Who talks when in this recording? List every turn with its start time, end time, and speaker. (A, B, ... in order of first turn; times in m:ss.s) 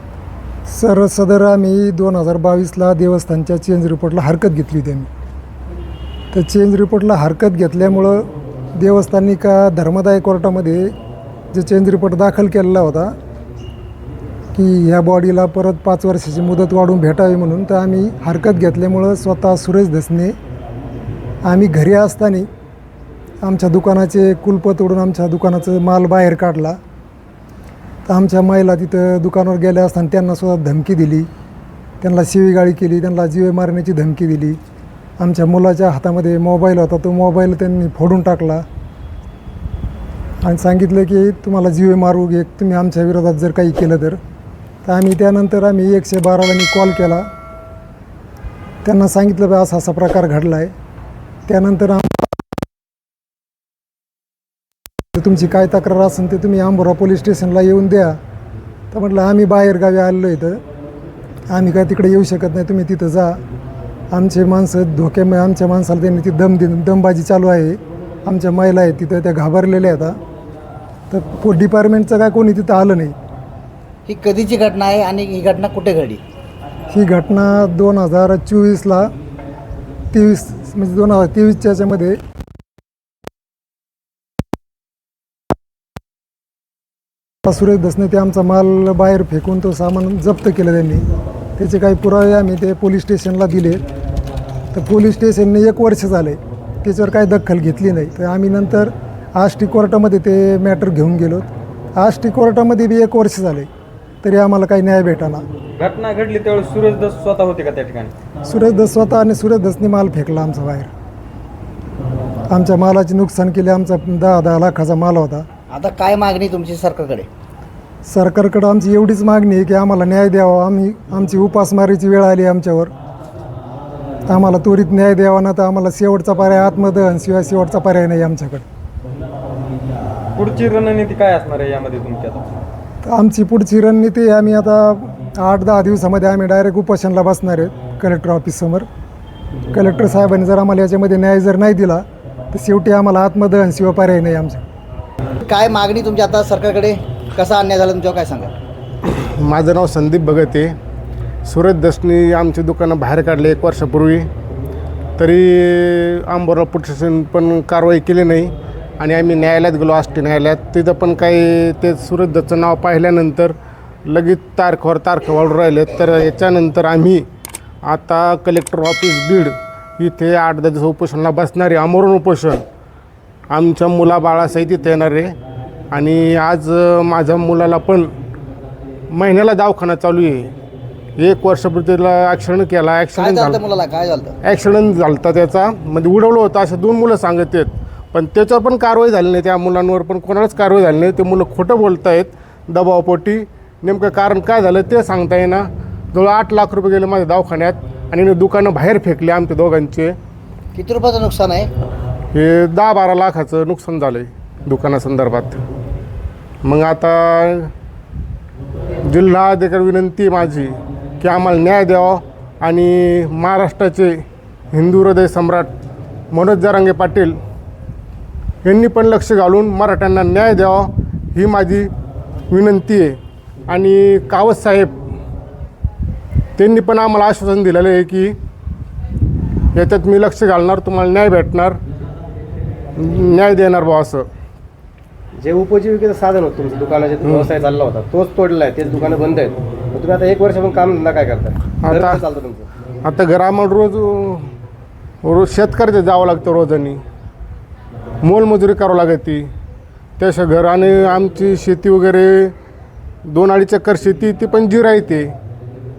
0:00.7-0:05.1 A
0:06.3-0:10.9 A
0:11.5-0:13.1 A
0:14.5-0:20.4 A
0:21.4-0:22.5 A
0:23.4-0:26.8 A
0:28.1-0:31.3 A
0:32.0-0:34.6 A
0:35.2-0:38.6 A
0:40.4-0:44.2 A
0:44.8-0:47.2 A
0:48.8-0:50.7 A
0:51.5-0:52.3 A
0:55.2-0:58.2 A
0:58.9-1:00.6 A
1:01.5-1:03.4 A
1:04.1-1:10.2 A
1:11.1-1:13.2 A
1:14.1-1:16.2 B
1:16.9-1:19.1 A
1:20.1-1:22.2 A
1:27.5-1:31.0 A
1:31.6-1:33.8 A
1:34.7-1:43.7 A
1:44.2-1:45.4 A
1:45.8-1:48.1 C
1:48.5-1:50.9 A
1:52.5-1:55.5 A
1:55.7-1:57.3 B
1:58.1-2:02.9 A
2:04.3-2:08.6 A
2:10.4-2:12.5 C
2:13.0-2:18.9 A
2:19.7-2:24.6 A
2:25.4-2:28.5 B
2:29.0-2:30.8 D
2:31.5-2:34.3 D
2:35.2-2:47.2 D
2:47.8-2:52.6 D
2:53.5-2:55.4 D
2:55.9-2:58.1 D
2:59.1-3:00.5 D
3:01.2-3:03.6 D
3:03.2-3:04.4 B
3:04.4-3:20.2 D
3:20.8-3:21.7 B
3:22.3-3:25.6 D
3:26.6-3:27.7 D
3:29.1-3:34.2 D
3:34.7-3:35.7 D
3:36.3-3:37.4 D
3:38.6-3:41.9 D
3:42.5-3:43.2 D
3:43.7-3:44.9 D
3:46.6-3:48.4 D
3:49.7-3:51.8 D
3:53.0-3:54.3 D
3:55.4-4:02.7 E
3:57.2-3:57.5 D
4:01.8-4:02.2 D
4:03.0-4:04.5 D
4:05.2-4:07.0 D
4:08.2-4:09.5 D
4:10.2-4:12.5 D
4:13.3-4:15.3 D